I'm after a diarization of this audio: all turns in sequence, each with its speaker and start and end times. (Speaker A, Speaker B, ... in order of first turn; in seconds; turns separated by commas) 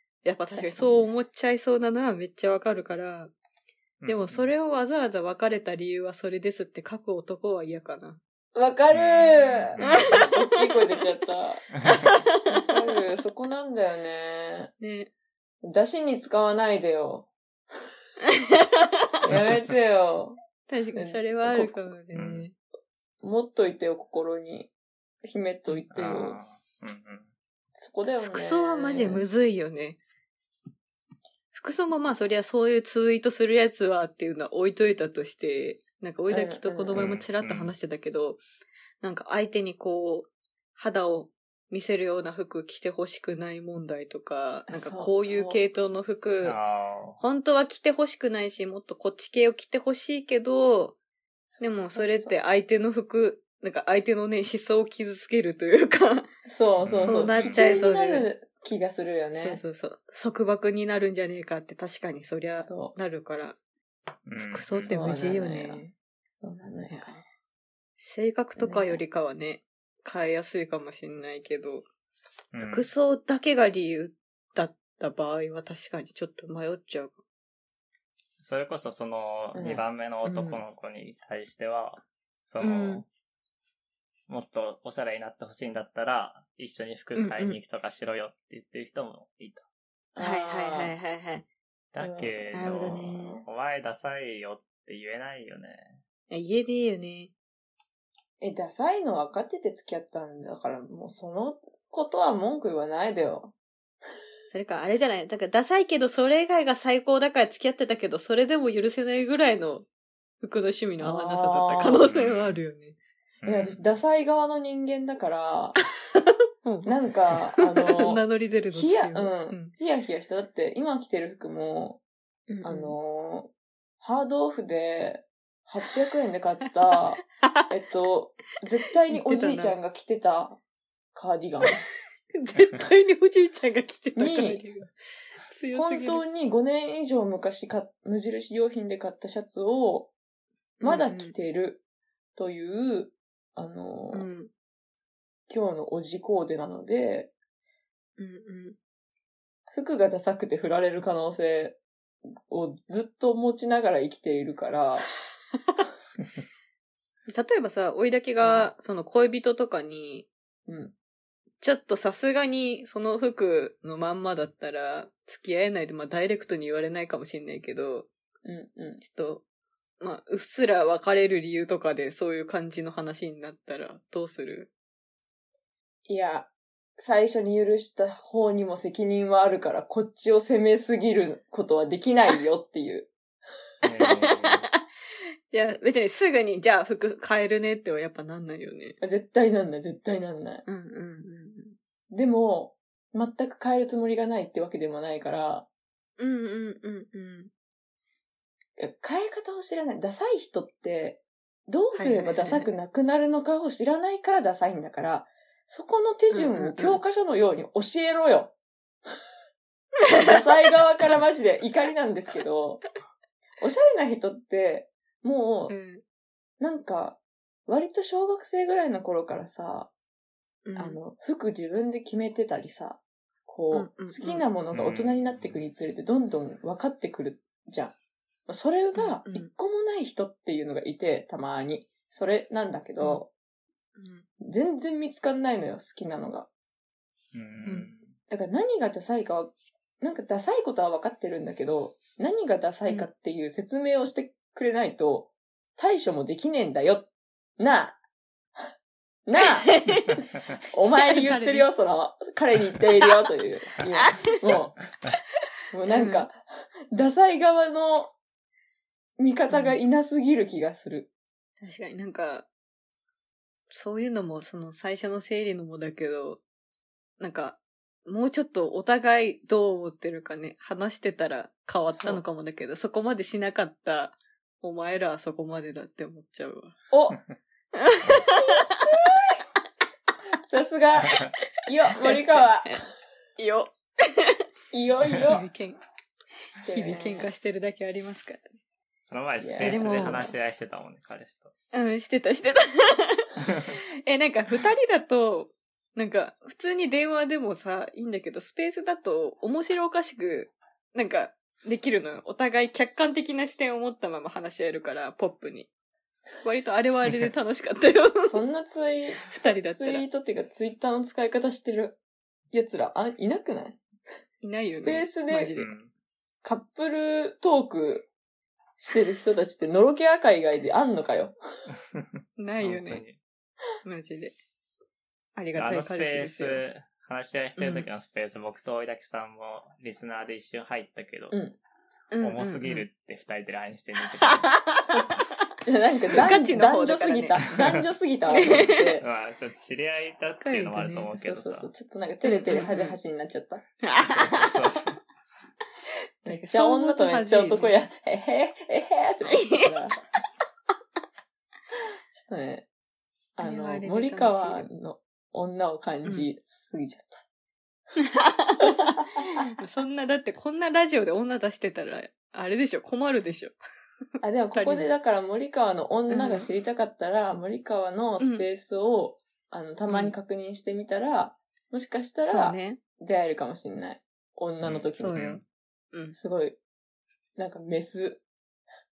Speaker A: 0.2-3.3, Speaker B: 0.6-1.1, Speaker C: 4.0-4.5, Speaker A: 4.0-8.2, Speaker B: 8.5-11.7, Speaker C: 8.9-10.1, Speaker A: 9.8-11.0, Speaker A: 11.8-12.6, Speaker C: 11.9-12.2, Speaker B: 12.5-14.7, Speaker A: 14.8-15.1, Speaker B: 15.6-17.3, Speaker A: 18.4-18.8, Speaker B: 19.2-20.4, Speaker C: 19.3-19.6, Speaker A: 20.7-22.5, Speaker B: 20.9-21.9, Speaker C: 22.1-22.4, Speaker B: 23.2-24.7, Speaker B: 25.2-26.4, Speaker C: 25.9-27.3, Speaker B: 27.8-29.2, Speaker A: 28.3-30.0, Speaker A: 31.5-38.4, Speaker B: 36.3-37.1, Speaker C: 36.9-37.7, Speaker A: 39.0-46.6, Speaker B: 44.7-45.6, Speaker C: 46.4-47.2, Speaker A: 47.2-51.0, Speaker B: 51.5-52.4, Speaker A: 51.6-56.3, Speaker B: 56.5-59.6, Speaker C: 56.8-57.9, Speaker A: 57.0-58.3, Speaker A: 59.3-63.6, Speaker B: 62.6-63.0, Speaker C: 64.2-65.0, Speaker A: 64.5-65.8, Speaker B: 64.9-67.2, Speaker A: 66.9-67.2, Speaker A: 68.0-71.8, Speaker B: 68.6-69.0, Speaker C: 72.5-72.9, Speaker A: 72.6-77.2, Speaker C: 78.4-83.0, Speaker B: 79.5-79.8, Speaker A: 82.6-83.0, Speaker C: 84.3-89.7, Speaker A: 87.2-87.6, Speaker B: 90.2-90.9, Speaker A: 90.2-91.5, Speaker C: 91.9-96.0, Speaker B: 92.0-93.4, Speaker A: 92.5-93.4, Speaker A: 96.3-97.3, Speaker B: 98.4-103.5, Speaker A: 104.5-109.9, Speaker A: 110.4-113.0, Speaker B: 111.0-112.0, Speaker C: 112.0-112.6, Speaker C: 113.4-113.9, Speaker B: 113.4-115.8, Speaker A: 116.1-116.9, Speaker B: 116.8-122.0, Speaker A: 117.6-119.7, Speaker A: 122.5-122.9, Speaker B: 122.6-123.5, Speaker B: 124.0-130.6, Speaker A: 127.3-127.7, Speaker A: 129.1-129.8, Speaker B: 131.1-131.8, Speaker A: 132.3-134.9, Speaker B: 134.2-134.6, Speaker A: 135.4-136.2, Speaker B: 135.7-140.1, Speaker A: 140.8-141.3, Speaker B: 140.8-141.8, Speaker B: 142.3-144.3, Speaker A: 144.1-144.5, Speaker B: 145.5-147.3, Speaker A: 148.2-148.8, Speaker B: 149.7-151.8, Speaker B: 152.3-155.1, Speaker A: 157.3-160.3, Speaker B: 158.4-158.7, Speaker B: 160.7-160.9, Speaker A: 161.6-168.1, Speaker B: 168.4-169.0, Speaker A: 169.0-169.4, Speaker A: 170.0-174.7, Speaker B: 176.1-183.1, Speaker C: 183.8-184.7, Speaker A: 184.0-184.6, Speaker A: 185.5-189.0, Speaker B: 189.0-190.6, Speaker A: 190.7-191.8, Speaker B: 192.1-195.7, Speaker A: 196.2-197.5, Speaker B: 198.8-208.5, Speaker A: 201.9-202.7, Speaker A: 206.3-207.0, Speaker B: 210.1-212.8, Speaker B: 213.6-215.7, Speaker A: 215.7-216.0, Speaker B: 216.6-219.9, Speaker A: 220.6-221.0, Speaker B: 220.8-227.9, Speaker A: 223.7-224.4, Speaker C: 224.7-225.6, Speaker B: 228.5-233.3, Speaker A: 228.9-229.5, Speaker A: 233.9-234.2, Speaker B: 234.4-236.5, Speaker C: 237.3-238.1, Speaker B: 238.3-248.0, Speaker B: 249.2-254.8, Speaker A: 249.4-250.2, Speaker A: 251.1-251.7, Speaker A: 254.0-254.3, Speaker B: 255.7-258.1, Speaker A: 255.9-256.2, Speaker B: 259.2-261.1, Speaker A: 259.5-259.8, Speaker A: 261.6-262.5, Speaker A: 263.7-266.4, Speaker A: 267.2-276.8, Speaker B: 271.9-272.2, Speaker B: 276.9-277.2, Speaker A: 277.7-279.2, Speaker B: 280.4-282.8, Speaker A: 282.0-282.8, Speaker A: 283.4-284.4, Speaker B: 284.7-285.5, Speaker A: 285.2-285.8, Speaker B: 286.6-287.3, Speaker A: 286.6-288.6, Speaker C: 289.1-291.5, Speaker B: 289.4-290.2, Speaker A: 289.6-290.3, Speaker A: 291.7-305.7, Speaker A: 306.4-308.4, Speaker B: 308.3-312.0, Speaker A: 309.2-310.1, Speaker B: 312.5-313.8, Speaker A: 314.4-315.7, Speaker B: 314.7-315.6, Speaker C: 315.6-315.9, Speaker B: 316.4-318.1, Speaker B: 318.8-321.3, Speaker C: 321.9-323.2, Speaker A: 322.4-323.0, Speaker A: 323.8-324.4, Speaker A: 325.4-326.6, Speaker C: 325.6-331.4, Speaker A: 327.6-327.9, Speaker B: 331.3-331.6, Speaker A: 332.1-332.9, Speaker C: 332.2-334.5, Speaker A: 334.2-335.1, Speaker B: 335.6-339.1, Speaker A: 336.1-337.6, Speaker A: 338.3-338.8, Speaker C: 339.0-341.7, Speaker A: 340.4-341.1, Speaker B: 341.2-343.6, Speaker A: 342.2-343.0, Speaker A: 343.8-344.8, Speaker C: 344.0-345.0, Speaker A: 346.2-347.8, Speaker B: 346.3-350.0, Speaker A: 349.4-349.6, Speaker B: 352.1-352.7, Speaker B: 353.4-357.2, Speaker A: 353.4-354.7, Speaker A: 358.0-363.5, Speaker B: 358.9-359.2, Speaker B: 364.2-375.2, Speaker A: 364.5-364.9, Speaker A: 366.1-366.5, Speaker A: 368.2-368.4, Speaker A: 369.9-370.1, Speaker A: 372.2-372.8, Speaker C: 374.6-375.4, Speaker A: 375.0-376.2, Speaker B: 376.1-376.6, Speaker B: 377.4-378.2